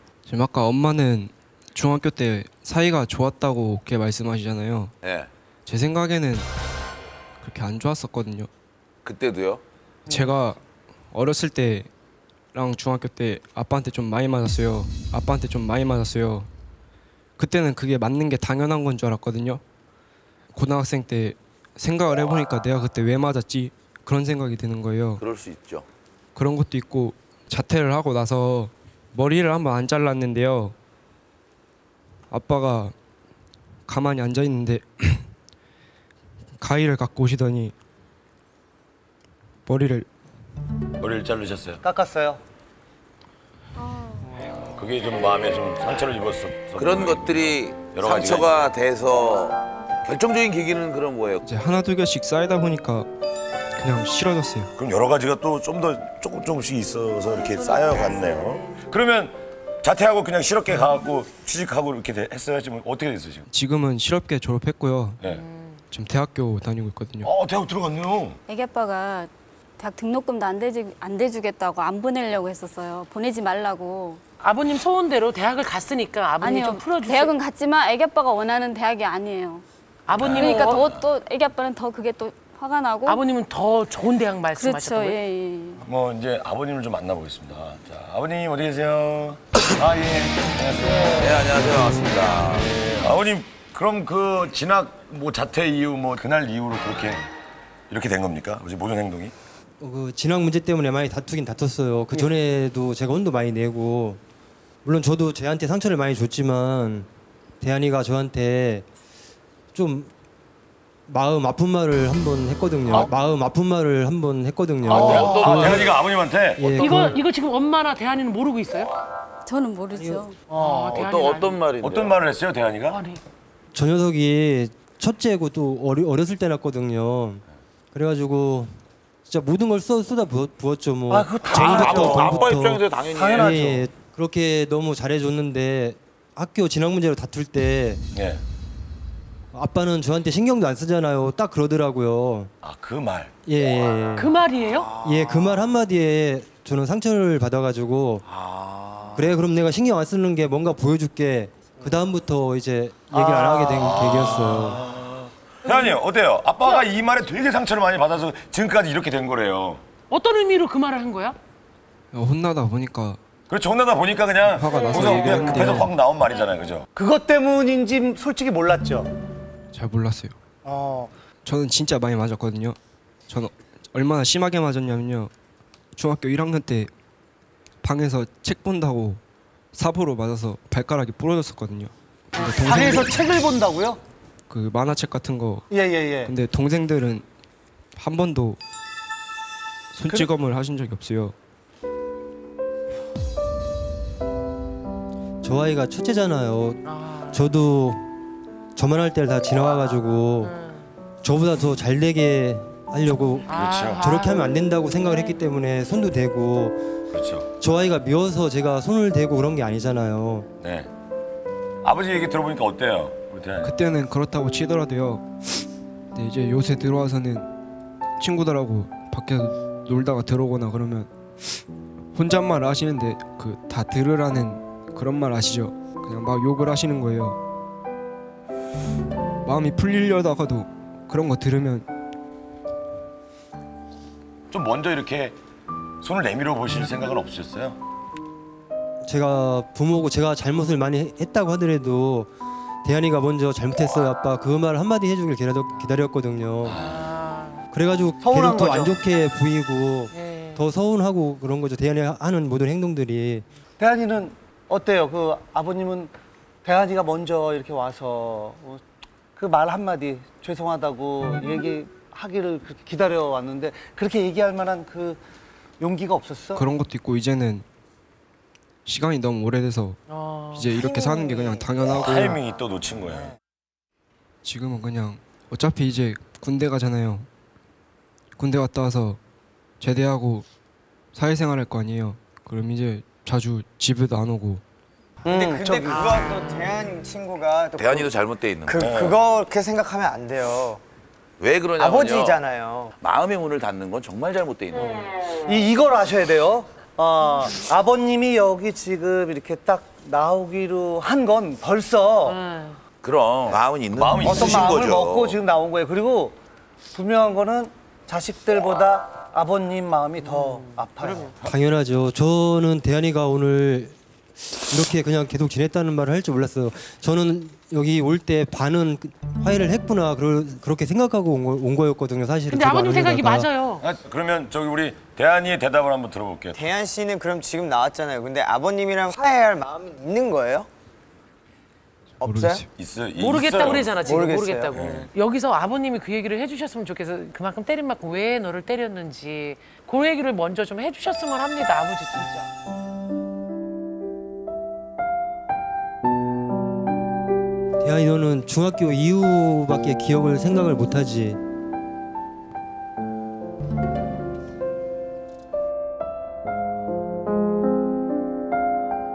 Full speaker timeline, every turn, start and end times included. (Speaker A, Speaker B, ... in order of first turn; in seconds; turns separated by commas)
Speaker A: 0.3-4.9, Speaker B: 5.0-5.3, Speaker A: 5.7-6.5, Speaker A: 7.4-8.5, Speaker B: 9.1-9.6, Speaker A: 10.1-10.6, Speaker A: 11.1-11.9, Speaker A: 12.5-16.5, Speaker A: 17.4-19.6, Speaker A: 20.5-25.2, Speaker B: 25.2-25.9, Speaker A: 26.4-30.8, Speaker A: 32.3-32.9, Speaker A: 33.9-35.3, Speaker A: 36.6-37.7, Speaker A: 39.7-40.1, Speaker C: 41.0-41.8, Speaker D: 41.8-42.4, Speaker C: 44.6-48.6, Speaker B: 46.8-51.4, Speaker A: 51.4-53.1, Speaker A: 53.8-54.7, Speaker C: 54.8-63.5, Speaker E: 57.3-58.8, Speaker A: 63.5-65.2, Speaker F: 65.3-65.8, Speaker A: 65.9-67.3, Speaker C: 67.2-68.4, Speaker E: 68.5-74.2, Speaker F: 74.4-77.3, Speaker E: 76.4-79.6, Speaker F: 80.1-80.9, Speaker C: 80.1-81.0, Speaker E: 80.2-83.2, Speaker F: 83.1-85.2, Speaker E: 84.5-85.8, Speaker C: 85.8-91.9, Speaker B: 91.1-92.9, Speaker C: 92.8-97.2, Speaker C: 97.9-99.3, Speaker G: 99.8-104.2, Speaker G: 104.8-107.1, Speaker G: 107.6-108.8, Speaker G: 109.7-110.1, Speaker G: 111.1-115.9, Speaker B: 114.9-115.9, Speaker C: 114.9-117.0, Speaker G: 116.6-117.2, Speaker F: 116.8-118.9, Speaker E: 119.5-120.4, Speaker G: 120.0-120.2, Speaker D: 120.5-121.1, Speaker F: 120.5-121.6, Speaker B: 120.9-122.2, Speaker C: 121.8-123.0, Speaker F: 122.9-123.2, Speaker G: 123.7-138.0, Speaker D: 131.1-132.4, Speaker B: 131.5-133.6, Speaker D: 133.1-133.9, Speaker C: 138.1-138.4, Speaker G: 139.5-142.5, Speaker C: 142.6-143.3, Speaker G: 143.5-144.3, Speaker F: 144.2-144.9, Speaker B: 144.7-145.5, Speaker G: 145.0-148.2, Speaker B: 148.3-149.3, Speaker G: 149.1-154.8, Speaker D: 153.2-153.7, Speaker C: 153.8-159.8, Speaker F: 160.1-161.4, Speaker A: 162.1-163.2, Speaker C: 163.5-166.9, Speaker A: 164.5-165.9, Speaker D: 164.9-165.6, Speaker D: 167.0-169.1, Speaker A: 169.7-170.3, Speaker D: 170.7-171.1, Speaker A: 171.4-172.8, Speaker A: 173.3-175.3, Speaker A: 175.9-176.9, Speaker A: 177.8-179.2, Speaker A: 179.7-183.2, Speaker D: 182.6-184.0, Speaker A: 184.5-185.7, Speaker D: 185.7-186.3, Speaker A: 186.2-187.2, Speaker A: 188.0-188.6, Speaker A: 189.9-191.3, Speaker G: 195.4-198.1, Speaker F: 196.9-197.6, Speaker G: 198.8-200.6, Speaker F: 200.4-200.9, Speaker G: 201.2-206.8, Speaker F: 203.5-204.5, Speaker C: 203.5-204.0, Speaker C: 207.1-207.5, Speaker G: 207.6-210.5, Speaker C: 210.6-210.9, Speaker C: 211.8-213.8, Speaker A: 213.6-217.5, Speaker A: 218.2-221.6, Speaker A: 222.2-227.4, Speaker A: 229.4-231.9, Speaker C: 234.5-235.4, Speaker C: 236.0-237.8, Speaker G: 239.1-242.3, Speaker G: 242.8-246.9, Speaker C: 246.7-247.0, Speaker F: 246.8-247.6, Speaker G: 247.7-253.5, Speaker D: 248.2-249.0, Speaker F: 250.1-250.6, Speaker D: 253.8-256.1, Speaker D: 256.6-258.8, Speaker D: 259.4-265.2, Speaker D: 265.8-266.6, Speaker A: 266.5-267.6, Speaker A: 268.9-270.0, Speaker F: 270.1-270.7, Speaker A: 270.5-272.4, Speaker H: 270.6-272.3, Speaker C: 272.1-273.3, Speaker A: 274.4-277.3, Speaker A: 278.4-279.2, Speaker A: 279.8-280.5, Speaker A: 281.1-284.6, Speaker D: 285.2-286.3, Speaker H: 285.3-290.8, Speaker B: 287.8-289.1, Speaker C: 288.8-289.1, Speaker B: 291.4-292.4, Speaker H: 291.8-292.9, Speaker B: 293.0-295.2, Speaker D: 295.4-302.4, Speaker F: 302.2-302.8, Speaker B: 303.0-305.4, Speaker C: 303.5-304.8, Speaker D: 304.2-306.4, Speaker D: 306.9-311.3, Speaker F: 310.2-311.3, Speaker G: 311.4-313.9, Speaker G: 314.6-323.5, Speaker F: 322.5-323.8, Speaker C: 323.8-326.6, Speaker H: 326.5-330.7, Speaker H: 332.2-332.6, Speaker A: 332.2-332.7, Speaker C: 332.7-334.0, Speaker F: 333.2-342.5, Speaker H: 334.0-334.7, Speaker C: 334.7-335.1, Speaker G: 347.8-351.4